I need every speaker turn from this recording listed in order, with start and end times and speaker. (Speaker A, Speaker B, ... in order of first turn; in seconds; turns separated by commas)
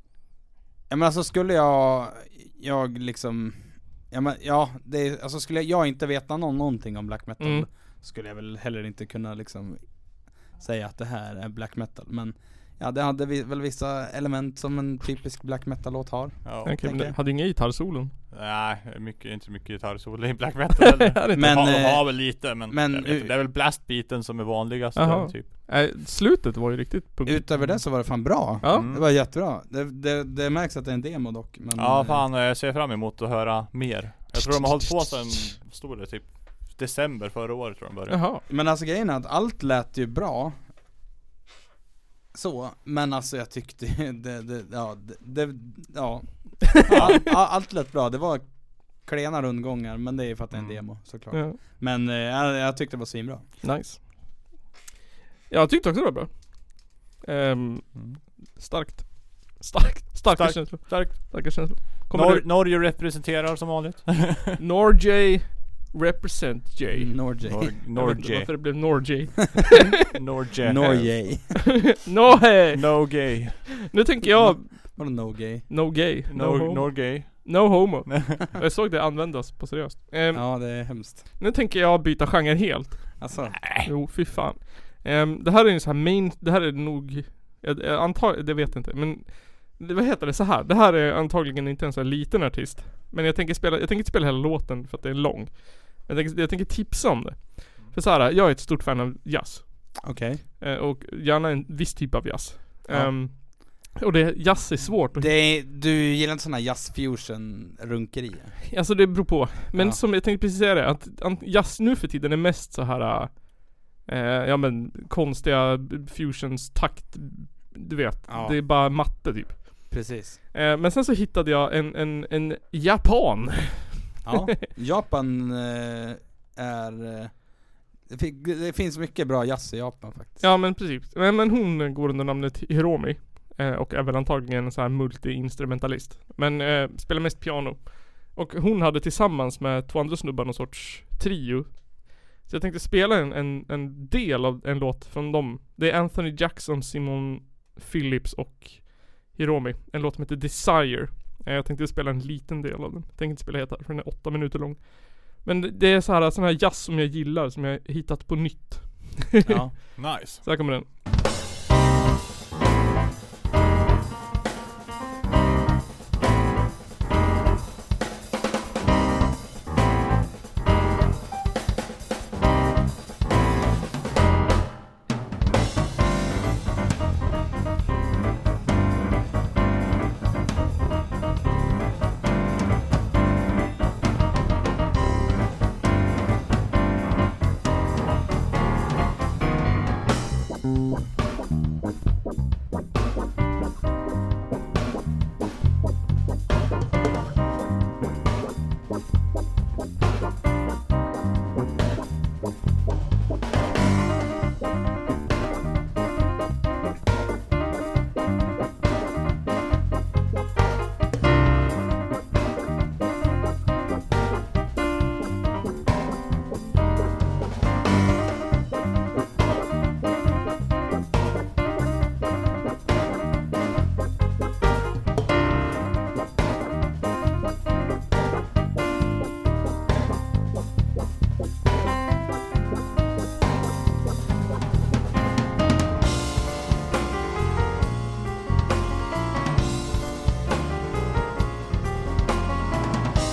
Speaker A: 0.9-17.1, Speaker B: 7.4-7.7, Speaker C: 16.4-16.8, Speaker B: 16.6-18.1, Speaker C: 18.3-25.5, Speaker B: 20.8-21.5, Speaker A: 21.4-23.3, Speaker B: 25.0-27.4, Speaker A: 27.2-32.3, Speaker C: 27.6-27.9, Speaker B: 28.6-28.9, Speaker C: 28.6-29.1, Speaker C: 31.8-38.2, Speaker B: 34.4-35.5, Speaker B: 38.1-38.4, Speaker A: 38.5-40.6, Speaker A: 42.3-53.5, Speaker C: 46.9-47.3, Speaker B: 46.9-47.2, Speaker C: 50.5-50.8, Speaker B: 51.3-51.6, Speaker B: 53.6-54.0, Speaker B: 55.5-62.5, Speaker C: 58.0-58.2, Speaker C: 60.3-64.6, Speaker B: 64.6-70.0, Speaker A: 66.9-67.7, Speaker C: 67.4-68.6, Speaker C: 70.0-71.4, Speaker A: 70.6-71.7, Speaker B: 71.9-83.3, Speaker C: 72.3-73.8, Speaker A: 74.3-75.7, Speaker C: 76.3-78.3, Speaker A: 80.3-81.3, Speaker A: 83.2-83.7, Speaker B: 83.8-105.3, Speaker A: 100.0-100.4, Speaker A: 102.9-103.5, Speaker A: 105.1-108.6, Speaker B: 108.7-124.4, Speaker A: 109.7-110.0, Speaker A: 118.3-118.6, Speaker A: 119.9-120.4, Speaker A: 124.2-127.5, Speaker A: 128.1-130.5, Speaker B: 130.4-160.9, Speaker A: 159.5-159.8, Speaker C: 160.0-160.4